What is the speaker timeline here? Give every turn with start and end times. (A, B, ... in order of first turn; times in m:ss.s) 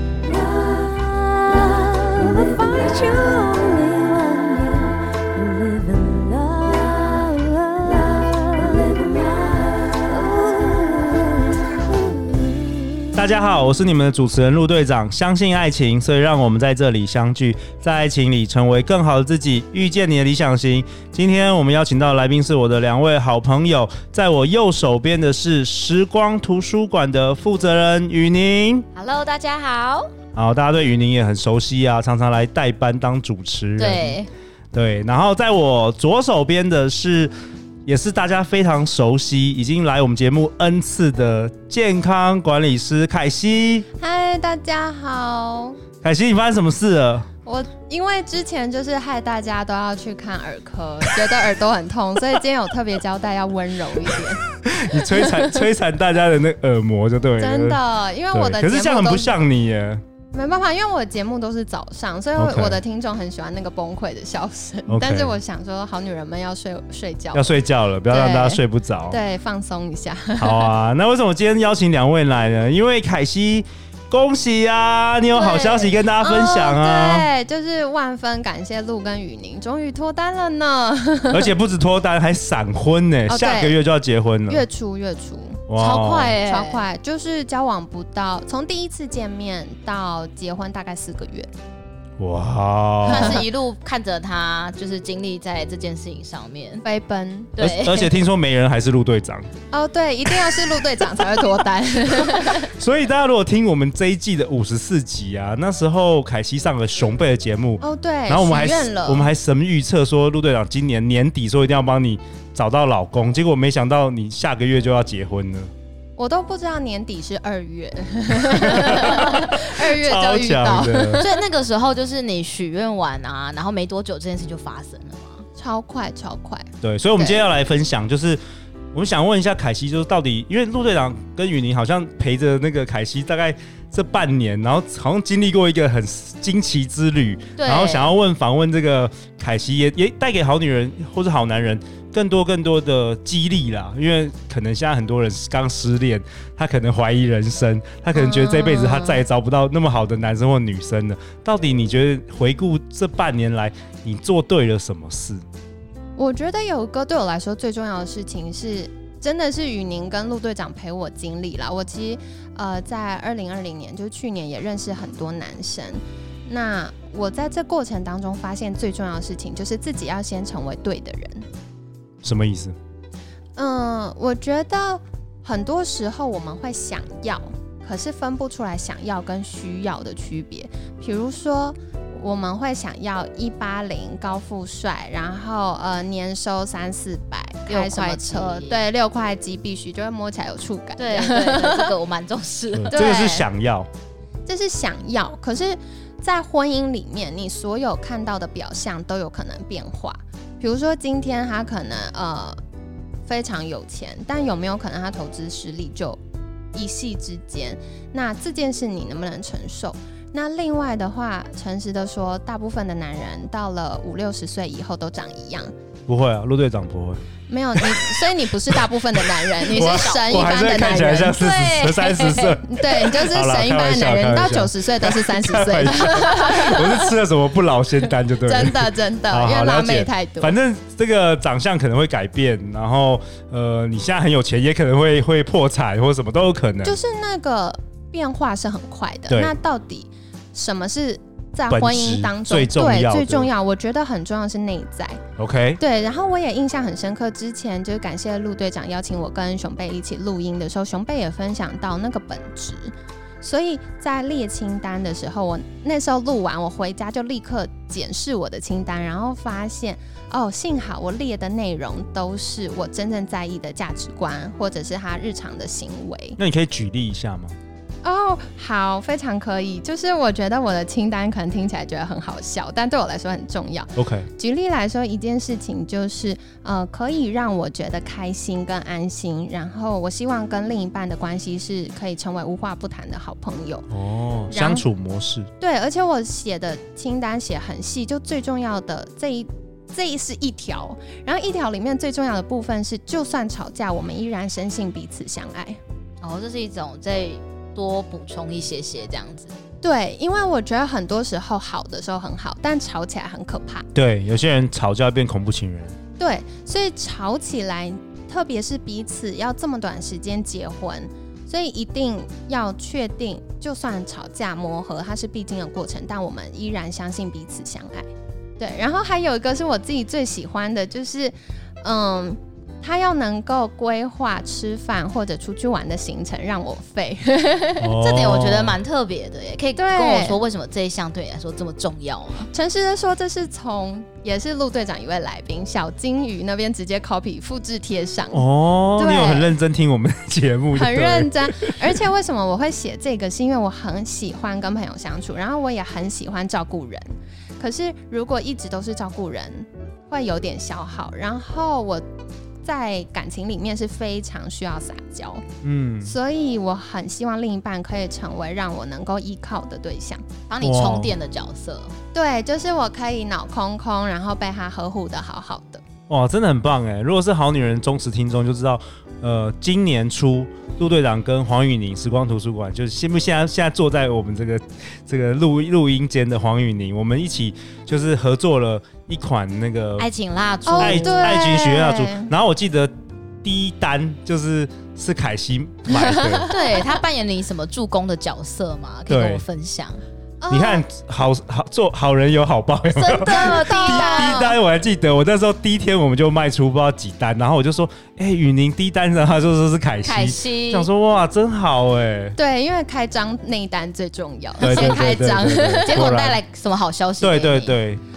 0:01.0-0:01.5 A
0:02.0-0:04.8 B
0:02.1-0:04.7 A
0:05.9-0:06.7 B
0:06.1-0:08.6 A
0:07.5-0:09.3 B
0:10.5-0:11.2 B
0:12.3-0:12.7 B
0:13.1-0:28.8 C
0:29.0-0:30.1 A
0:30.3-0:34.1 C
0:33.8-0:34.3 A
0:34.7-0:37.3 C
0:37.8-0:43.8 C
0:44.0-0:45.8 D
0:46.0-0:47.3 C
0:47.4-0:55.5 D
0:54.6-0:57.8 C
0:57.4-0:59.4 D
0:58.3-1:00.0 C
1:00.3-1:07.5 D
1:02.4-1:02.8 C
1:04.9-1:05.3 C
1:07.3-1:09.2 C
1:08.1-1:10.7 D
1:10.4-1:17.3 C
1:15.3-1:21.5 D
1:21.3-1:24.6 C
1:23.3-1:23.8 D
1:24.5-1:25.6 D
1:25.7-1:26.4 C
1:25.8-1:26.8 A
1:26.4-1:31.5 D
1:32.2-1:33.4 C
1:33.1-1:36.8 A
1:33.1-1:33.4 D
1:36.8-1:37.5 D
1:37.6-1:38.1 A
1:37.6-1:39.5 C
1:39.7-1:42.7 D
1:42.4-1:55.7 C
1:47.8-1:49.3 D
1:56.2-2:01.4 D
1:58.4-2:01.2 C
2:01.2-2:05.4 A
2:05.6-2:07.4 D
2:06.8-2:08.4 C
2:08.9-2:35.4 C
2:17.6-2:18.1 A
2:28.1-2:29.2 D
2:36.2-2:51.4 D
2:52.2-2:52.7 C
2:53.6-3:11.9 D
3:07.7-3:08.8 A
3:11.0-3:13.0 A
3:12.7-3:13.9 C
3:12.9-3:13.4 D
3:14.4-3:22.6 D
3:23.3-3:26.2 D
3:26.7-3:35.7 D
3:36.1-3:37.2 C
3:37.5-3:41.4 D
3:37.8-3:57.0 C
3:39.7-3:40.5 A
3:41.4-3:42.6 A
3:42.6-3:47.1 D
3:48.4-3:50.5 D
3:56.8-4:05.2 D
3:59.3-3:59.5 C
4:01.7-4:03.5 C
4:05.4-4:05.8 C
4:05.8-4:26.4 D
4:26.4-4:27.6 C
4:28.0-4:43.9 D
4:34.0-4:34.3 C
4:43.9-4:45.5 C
4:44.5-4:44.8 D
4:45.6-4:55.8 D
4:56.2-4:59.5 A
4:59.8-5:03.8 D
5:03.9-5:06.0 C
5:06.2-5:18.1 D
5:18.6-5:27.9 D
5:27.8-5:28.8 C
5:28.0-5:32.5 A
5:29.8-5:30.4 D
5:32.5-5:38.4 D
5:38.3-5:41.8 C
5:39.0-5:39.5 D
5:40.7-5:52.0 D
5:52.6-5:55.4 D
5:55.6-5:56.1 C
5:56.0-6:00.2 D
6:00.5-6:01.9 A
6:00.6-6:01.1 C
6:02.1-6:05.8 D
6:06.1-6:20.1 C
6:20.0-6:21.4 A
6:20.6-6:22.3 D
6:20.8-6:26.5 C
6:25.9-6:27.0 D
6:26.5-6:30.0 A
6:29.1-6:29.4 C
6:30.4-6:30.8 D
6:30.5-6:42.4 C
6:32.9-6:34.5 A
6:33.2-6:34.6 D
6:40.0-6:40.9 A
6:42.4-6:46.1 D
6:44.6-6:46.4 C
6:44.6-6:45.2 A
6:45.8-6:47.8 A
6:47.2-6:48.0 C